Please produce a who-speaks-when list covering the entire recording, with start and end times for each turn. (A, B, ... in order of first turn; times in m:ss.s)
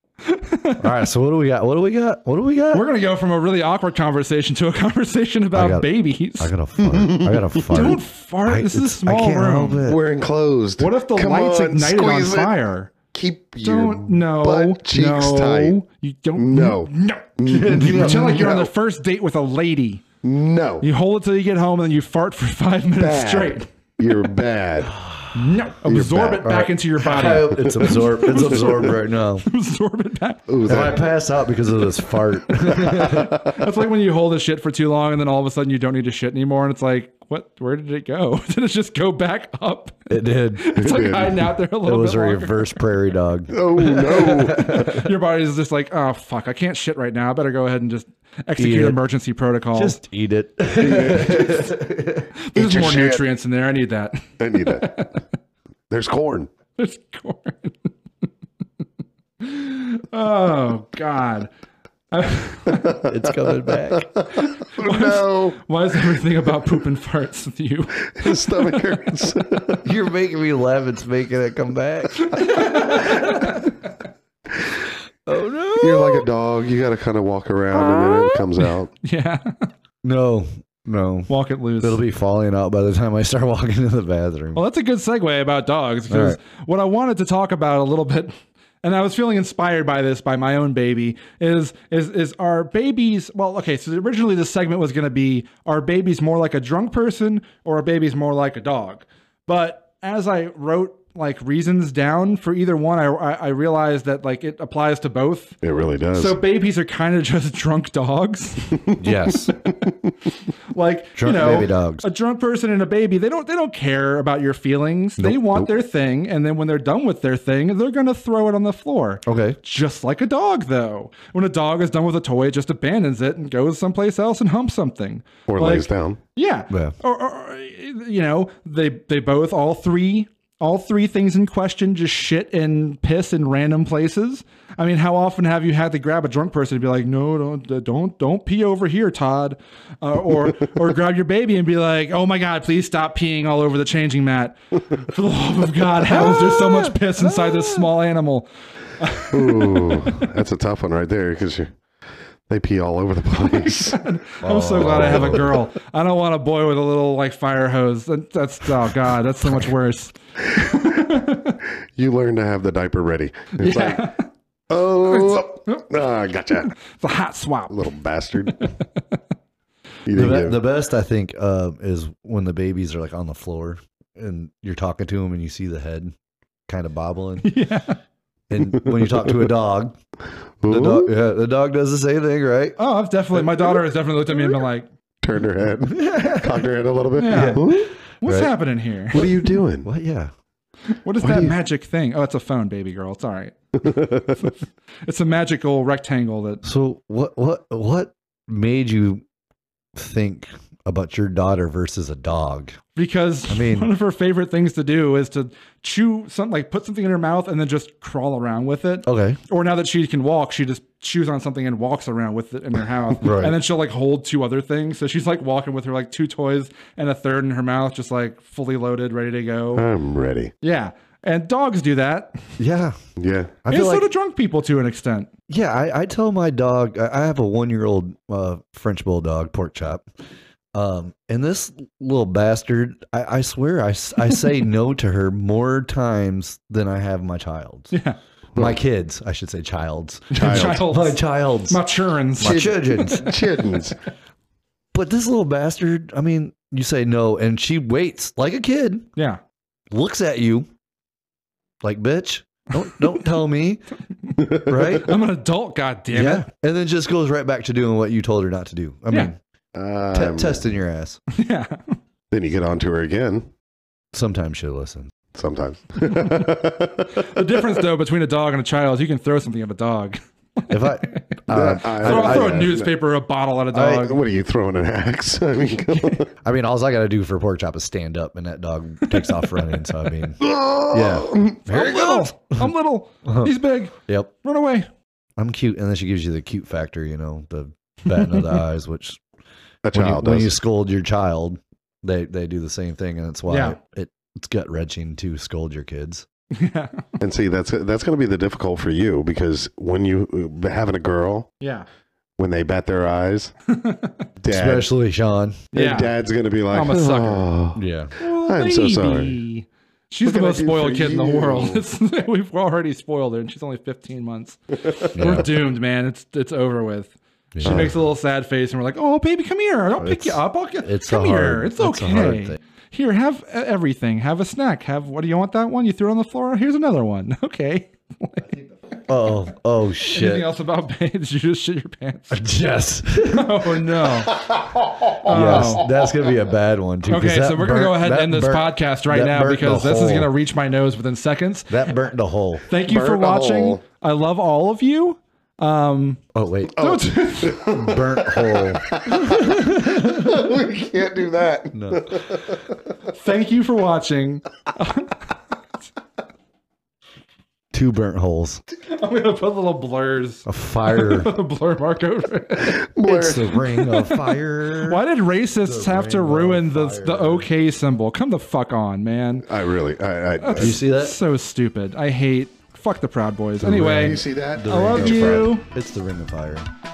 0:00.2-0:00.9 A
0:00.8-0:02.8 B
0:02.7-0:06.5 A
0:05.5-0:10.0 B
0:06.8-0:08.0 C
0:07.7-0:09.9 A
0:09.8-0:12.5 C
0:10.8-0:12.9 A
0:13.1-0:15.8 C
0:13.6-0:20.0 A
0:16.4-0:18.7 C
0:17.5-0:18.6 B
0:20.2-0:20.9 C
0:20.8-0:23.7 A
0:23.0-0:25.0 C
0:24.9-0:25.3 B
0:25.3-0:30.5 A
0:25.8-0:26.5 C
0:26.4-0:29.5 B
0:27.6-0:28.0 C
0:30.5-0:31.1 C
0:30.6-0:33.4 B
0:32.9-0:33.5 C
0:33.3-0:42.8 A
0:40.1-0:40.7 B
0:40.8-0:41.5 C
0:41.8-0:45.1 B
0:43.5-0:45.0 C
0:44.2-0:50.0 A
0:48.6-0:49.0 B
0:49.8-0:52.3 B
0:50.8-0:51.7 C
0:52.4-0:55.2 A
0:52.6-0:53.2 C
0:54.4-0:54.9 C
0:55.9-0:56.5 C
0:56.8-0:57.9 A
0:59.4-1:01.5 A
1:02.1-1:03.1 A
1:03.0-1:04.1 B
1:04.2-1:05.6 C
1:04.3-1:09.0 A
1:08.1-1:09.9 C
1:09.8-1:13.7 B
1:12.2-1:13.8 A
1:15.3-1:16.3 B
1:15.8-1:18.9 C
1:19.0-1:19.7 A
1:20.0-1:24.6 B
1:21.3-1:22.0 A
1:24.6-1:45.6 A
1:26.1-1:26.4 B
1:45.6-1:46.4 C
1:46.1-1:49.0 A
1:49.0-1:49.5 B
1:49.6-1:49.9 A
1:50.7-2:30.1 A
1:51.2-1:52.1 B
1:55.2-1:55.6 B
1:59.3-1:59.6 B
2:05.5-2:06.2 C
2:06.7-2:07.0 B
2:26.1-2:27.9 B
2:29.3-2:31.7 C
2:32.5-2:34.0 C
2:33.5-2:41.6 A
2:34.4-2:35.6 B
2:34.8-2:35.6 C
2:42.0-2:44.1 C
2:43.6-2:44.2 A
2:44.7-2:46.7 C
2:45.0-2:45.8 A
2:46.8-2:47.8 A
2:47.7-2:48.7 C
2:50.1-2:50.6 C
2:50.1-2:56.1 B
2:56.7-2:57.5 B
2:57.4-2:58.0 A
2:58.5-3:00.0 B
3:00.6-3:01.1 C
3:00.7-3:02.8 B
3:02.8-3:04.9 A
3:05.2-3:07.9 C
3:05.8-3:06.7 B
3:07.2-3:09.3 A
3:07.3-3:08.5 B
3:09.1-3:09.9 C
3:09.8-3:10.3 B
3:10.9-3:13.6 A
3:11.2-3:11.6 C
3:13.8-3:14.5 C
3:15.1-3:16.6 A
3:16.6-3:19.2 B
3:20.0-3:22.8 B
3:23.0-3:39.9 A
3:23.5-3:23.9 B
3:29.1-3:29.4 B
3:33.2-3:33.6 B
3:39.8-3:40.5 C
3:40.6-3:42.4 A
3:42.6-3:43.0 B
3:43.2-3:43.6 C
3:43.6-3:44.1 B
3:43.7-3:45.3 A
3:45.5-3:50.0 B
3:50.7-3:57.9 B
3:57.9-3:58.2 A
3:58.6-3:58.8 C
3:58.6-4:01.8 B
4:00.3-4:03.3 A
4:00.3-4:00.9 C
4:02.4-4:03.2 B
4:02.4-4:04.0 C
4:04.9-4:09.1 B
4:09.9-4:10.7 B
4:11.8-4:13.8 B
4:14.4-4:16.5 A
4:14.4-4:14.7 C
4:14.5-4:15.1 B
4:16.1-4:19.4 B
4:19.8-4:20.6 C
4:20.1-4:21.2 B
4:21.3-4:22.0 A
4:22.3-4:23.5 C
4:24.1-4:25.1 B
4:25.3-4:27.4 C
4:26.1-4:26.5 A
4:27.2-4:31.3 A
4:30.7-4:32.7 B
4:31.5-4:32.9 C
4:32.0-4:34.2 A
4:33.8-4:36.3 C
4:36.4-4:42.7 B
4:39.0-4:39.9 A
4:40.4-4:41.6 C
4:41.7-4:44.9 A
4:43.2-4:43.6 B
4:45.4-4:49.2 B
4:49.8-4:50.6 C
4:49.9-4:56.3 B
4:53.5-4:53.8 A
4:56.5-4:57.1 A
4:57.2-5:01.5 C
5:01.6-5:01.9 A
5:02.4-5:03.5 C
5:03.7-5:04.2 A
5:04.4-5:04.9 C
5:04.5-5:05.6 B
5:05.7-5:06.1 A
5:05.7-5:09.4 C
5:06.7-5:07.5 A
5:07.8-5:08.1 B
5:08.2-5:28.6 A
5:10.2-5:11.8 C
5:15.2-5:15.6 B
5:17.6-5:18.0 B
5:20.0-5:22.6 B
5:29.1-5:30.5 B
5:30.0-5:32.4 A
5:32.3-5:33.8 B
5:33.2-5:34.4 A
5:34.3-5:35.6 C
5:35.2-5:35.9 A
5:35.3-5:40.3 B
5:37.0-5:42.0 A
5:41.7-5:42.7 B
5:42.7-5:47.7 A
5:42.8-5:43.8 C
5:46.3-5:46.9 B
5:46.8-5:52.7 C
5:47.5-5:50.2 B
5:51.7-5:52.1 B
5:53.1-5:55.2 A
5:57.7-5:58.6 B
5:58.7-6:02.9 A
6:00.5-6:01.3 B
6:02.6-6:03.6 C
6:03.0-6:05.0 B
6:03.7-6:09.5 A
6:05.6-6:07.5 B
6:09.5-6:10.8 C
6:10.4-6:15.7 A
6:10.6-6:11.2 B
6:13.6-6:16.7 B
6:13.8-6:15.4 C